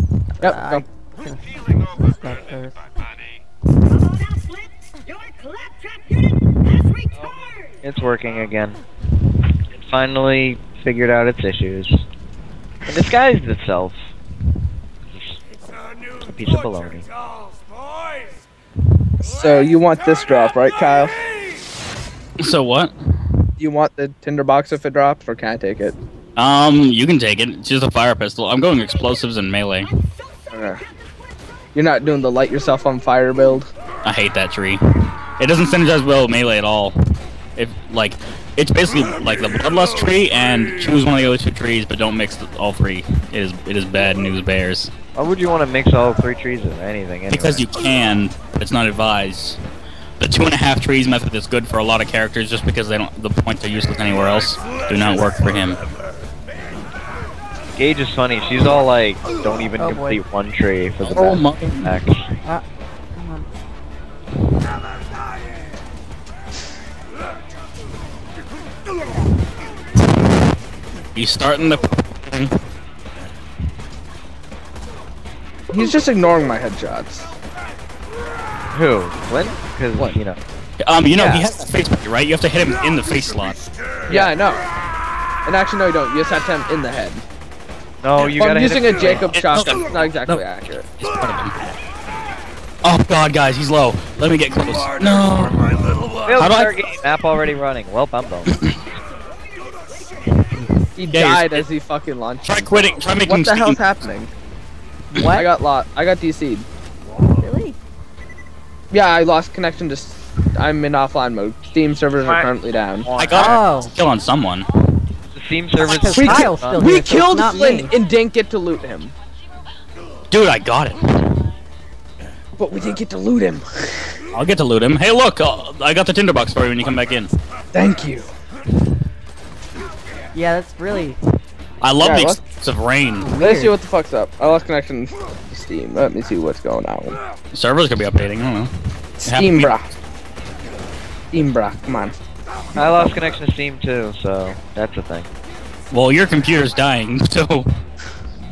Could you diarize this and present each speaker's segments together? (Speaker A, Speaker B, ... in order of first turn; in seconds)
Speaker A: 0.4-0.8, 19.2-21.2, 23.6-25.9, 30.5-30.8, 31.7-33.7, 75.7-77.3, 84.1-84.6, 85.5-87.2, 88.3-90.8, 101.0-104.3, 105.3-106.7, 108.9-113.1, 116.1-119.1, 122.6-124.2, 127.7-128.3, 132.0-132.4, 133.4-137.2, 139.2-139.8, 141.3-142.2, 142.7-143.4
Speaker B: 0.4-2.8, 59.8-60.2, 63.1-63.5, 105.1-105.5, 107.3-107.8, 113.3-113.9, 115.8-117.9, 130.3-131.2, 133.2-133.7
Speaker C: 7.2-8.8, 9.7-12.0, 12.9-14.0, 15.1-15.4, 16.2-17.1, 45.1-47.6, 57.7-62.3, 78.7-80.4, 81.1-81.5, 88.0-89.3, 96.2-98.5, 113.0-113.6, 115.3-116.8, 142.8-145.3
Speaker D: 22.4-22.9, 26.4-29.9, 34.0-34.8, 35.4-37.0, 37.5-44.9, 47.3-49.6, 50.2-55.8, 61.0-61.9, 71.1-72.6, 80.8-83.6, 89.3-91.5, 92.8-96.8, 98.5-98.7, 101.1-101.6, 102.4-103.8, 113.2-114.7, 120.3-121.0, 124.3-127.3, 131.8-133.3, 137.5-138.7, 139.2-139.7, 145.9-147.7